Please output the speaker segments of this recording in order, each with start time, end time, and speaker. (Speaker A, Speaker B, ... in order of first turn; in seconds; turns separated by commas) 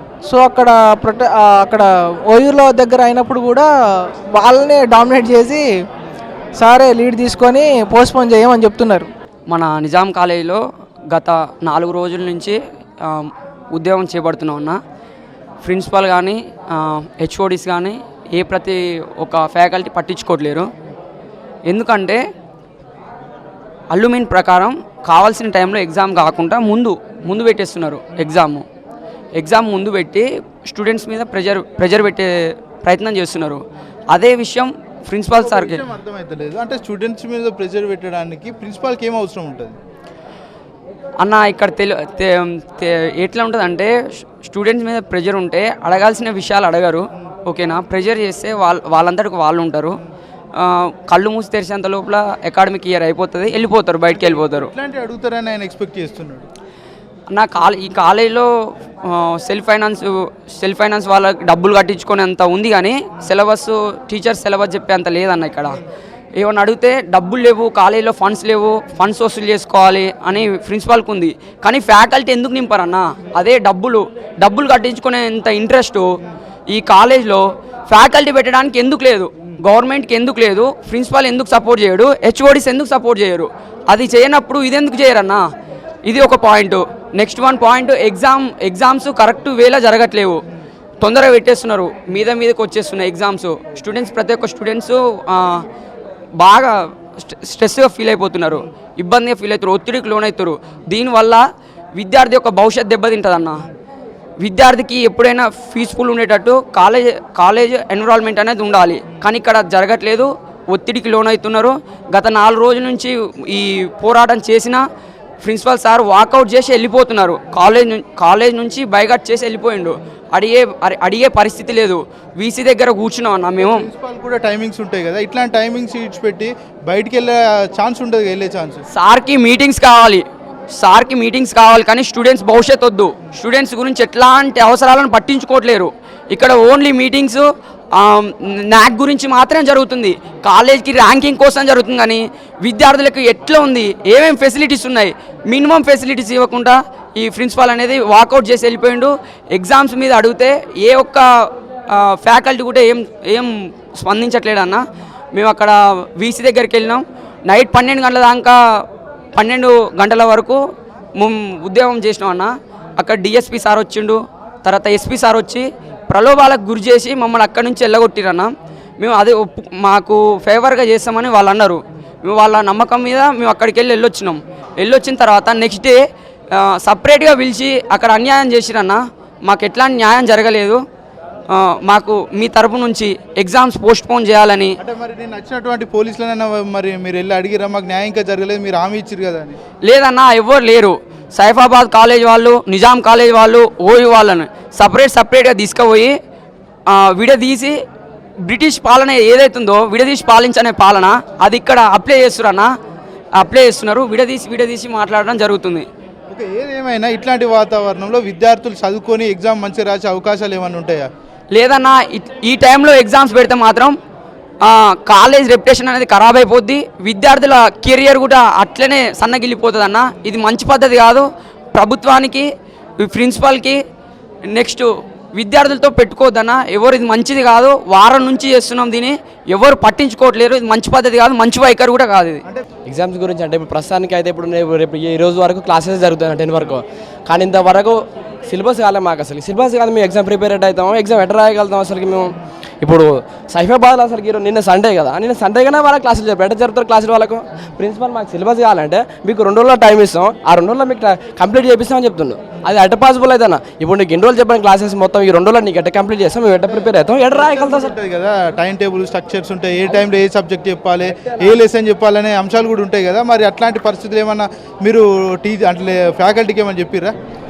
Speaker A: 0.2-3.7, Speaker A: 4.3-5.7, Speaker A: 6.6-9.1, Speaker B: 9.5-10.6, Speaker B: 11.1-14.8, Speaker B: 15.6-20.7, Speaker B: 21.7-22.2, Speaker B: 23.9-28.6, Speaker B: 29.4-32.3, Speaker B: 32.8-35.8, Speaker C: 35.4-39.8, Speaker B: 41.2-50.0, Speaker B: 50.6-54.7, Speaker C: 54.1-56.5, Speaker B: 57.3-58.5, Speaker B: 59.1-65.8, Speaker B: 66.4-76.1, Speaker B: 76.7-85.4, Speaker B: 86.0-90.4, Speaker B: 91.0-95.7, Speaker B: 96.4-101.4, Speaker B: 102.0-103.6, Speaker B: 104.4-114.8, Speaker B: 115.4-123.9, Speaker C: 123.6-128.8, Speaker B: 128.9-130.2, Speaker B: 130.8-151.2, Speaker B: 151.9-154.8, Speaker B: 155.3-158.6, Speaker B: 159.4-160.6, Speaker B: 161.2-176.0, Speaker B: 176.6-180.8, Speaker B: 181.5-184.8, Speaker C: 184.8-189.6, Speaker B: 189.8-196.1, Speaker B: 196.9-197.8, Speaker B: 198.4-202.7, Speaker B: 203.4-205.9, Speaker C: 206.3-211.1, Speaker B: 211.5-213.9, Speaker B: 214.6-222.5, Speaker B: 223.0-223.8, Speaker B: 224.5-232.4, Speaker D: 232.9-257.9, Speaker C: 256.7-267.1